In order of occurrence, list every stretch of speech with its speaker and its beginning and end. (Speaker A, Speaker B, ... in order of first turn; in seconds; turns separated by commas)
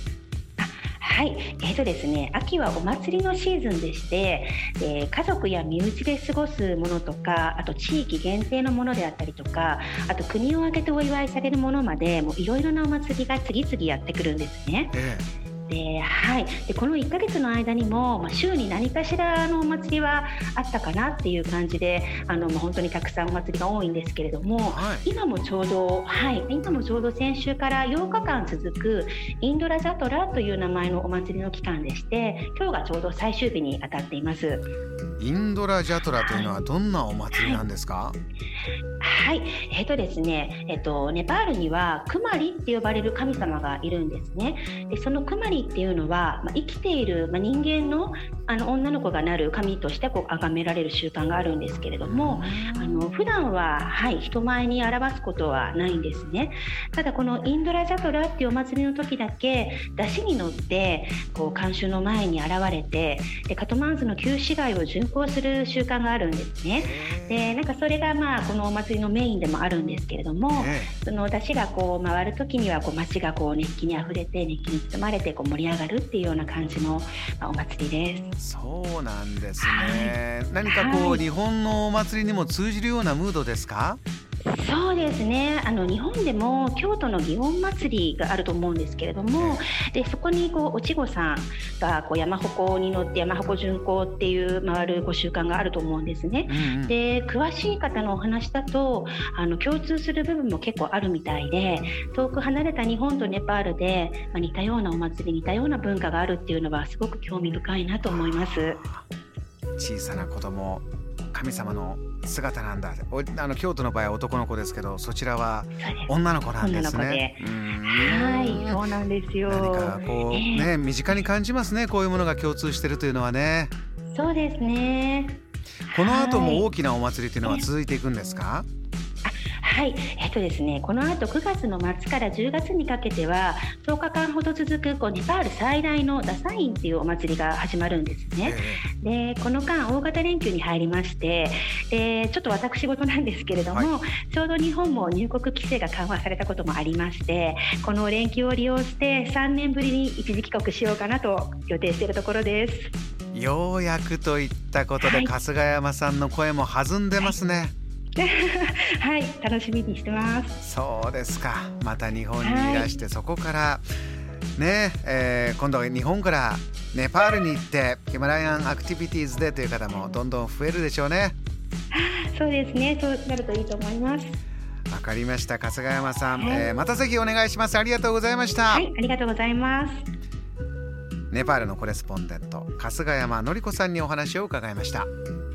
Speaker A: 0.6-14.9, Speaker B: 14.9-15.3, Speaker A: 15.7-34.7, Speaker B: 24.6-25.1, Speaker B: 35.2-38.1, Speaker A: 36.2-36.5, Speaker A: 37.3-37.6, Speaker A: 39.0-78.3, Speaker B: 52.0-53.0, Speaker B: 66.7-67.5, Speaker B: 70.5-70.9, Speaker B: 78.4-84.0, Speaker A: 79.6-81.2, Speaker A: 84.4-108.8, Speaker B: 89.4-89.6, Speaker B: 96.5-96.9, Speaker B: 108.0-109.0, Speaker B: 109.8-118.8, Speaker A: 115.8-120.7, Speaker B: 119.5-123.7, Speaker A: 124.1-126.7, Speaker B: 125.9-128.7, Speaker A: 129.2-152.9, Speaker B: 138.4-138.8, Speaker B: 153.3-157.7, Speaker A: 155.0-155.3, Speaker A: 158.2-160.6, Speaker B: 160.6-163.8, Speaker A: 162.4-163.0, Speaker B: 164.6-171.3, Speaker A: 171.9-174.4, Speaker B: 174.9-178.9, Speaker A: 176.3-176.7, Speaker A: 178.7-180.0, Speaker B: 181.3-185.1